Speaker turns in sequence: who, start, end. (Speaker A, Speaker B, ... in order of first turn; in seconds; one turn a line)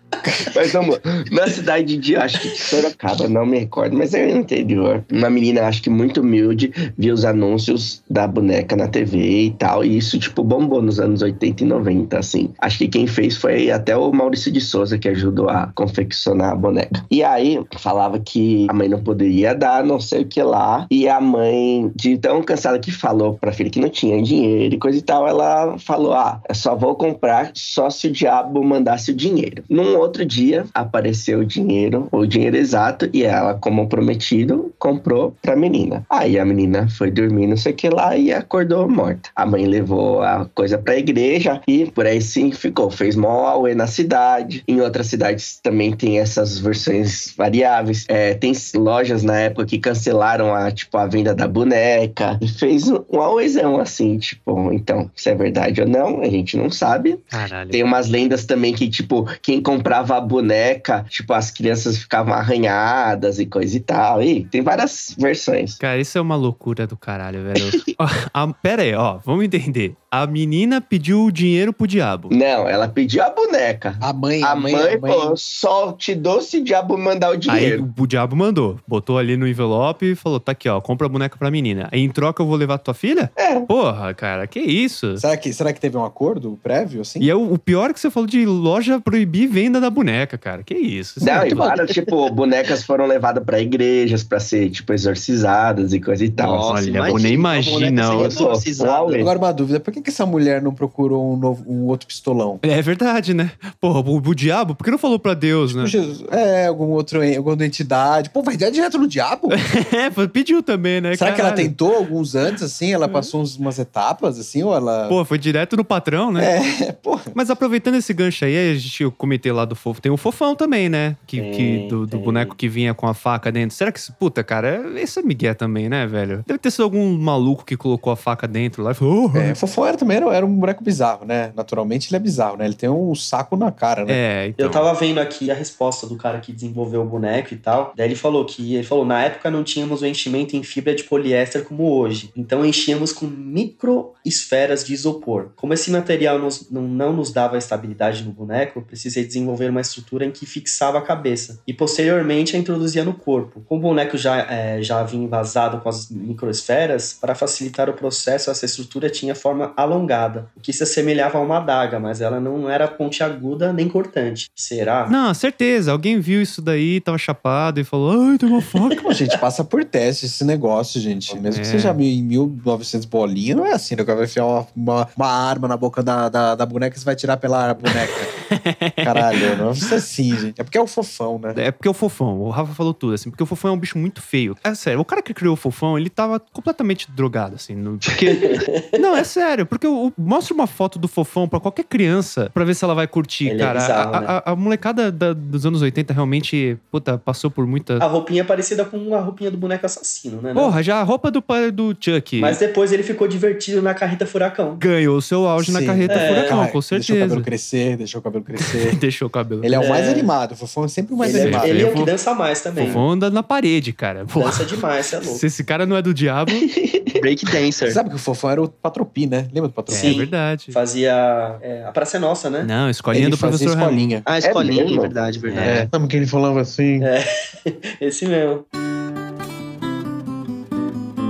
Speaker A: 0.5-65.8
Speaker B: 57.3-57.8
Speaker B: 65.8-72.3
Speaker A: 72.3-77.8
Speaker C: 74.0-75.4
Speaker B: 77.5-85.2
Speaker A: 83.4-83.7
Speaker C: 85.2-87.3
Speaker B: 87.2-91.8
Speaker A: 91.2-99.3
Speaker D: 96.4-99.3
Speaker B: 96.5-98.3
Speaker C: 99.2-102.6
Speaker B: 102.6-105.9
Speaker C: 105.7-109.6
Speaker B: 109.5-111.7
Speaker C: 111.1-115.2
Speaker B: 113.0-113.3
Speaker B: 115.1-116.5
Speaker C: 116.4-117.3
Speaker B: 117.3-129.6
Speaker E: 121.3-122.5
Speaker C: 129.3-134.2
Speaker B: 134.1-134.9
Speaker E: 134.6-165.1
Speaker B: 165.1-169.1
Speaker C: 169.0-178.3
Speaker B: 171.5-172.0
Speaker B: 178.5-179.9
Speaker C: 179.0-181.6
Speaker B: 181.5-198.1
Speaker E: 188.4-189.0
Speaker E: 193.4-194.3
Speaker E: 198.0-200.7
Speaker B: 200.5-202.6
Speaker E: 202.4-204.8
Speaker B: 204.8-207.5
Speaker C: 205.6-209.0
Speaker E: 206.1-206.6
Speaker B: 208.6-209.8
Speaker C: 209.6-211.9
Speaker E: 209.8-210.3
Speaker E: 211.2-213.0
Speaker B: 211.4-212.1
Speaker B: 212.8-216.7
Speaker E: 214.3-215.4
Speaker A: 216.5-217.2
Speaker D: 217.1-218.0
Speaker C: 217.8-220.2
Speaker B: 219.9-220.8
Speaker E: 219.9-222.7
Speaker B: 222.6-224.1
Speaker C: 223.1-224.2
Speaker D: 224.2-225.9
Speaker A: 224.4-225.2
Speaker B: 225.5-225.8
Speaker C: 225.6-227.1
Speaker E: 227.0-228.6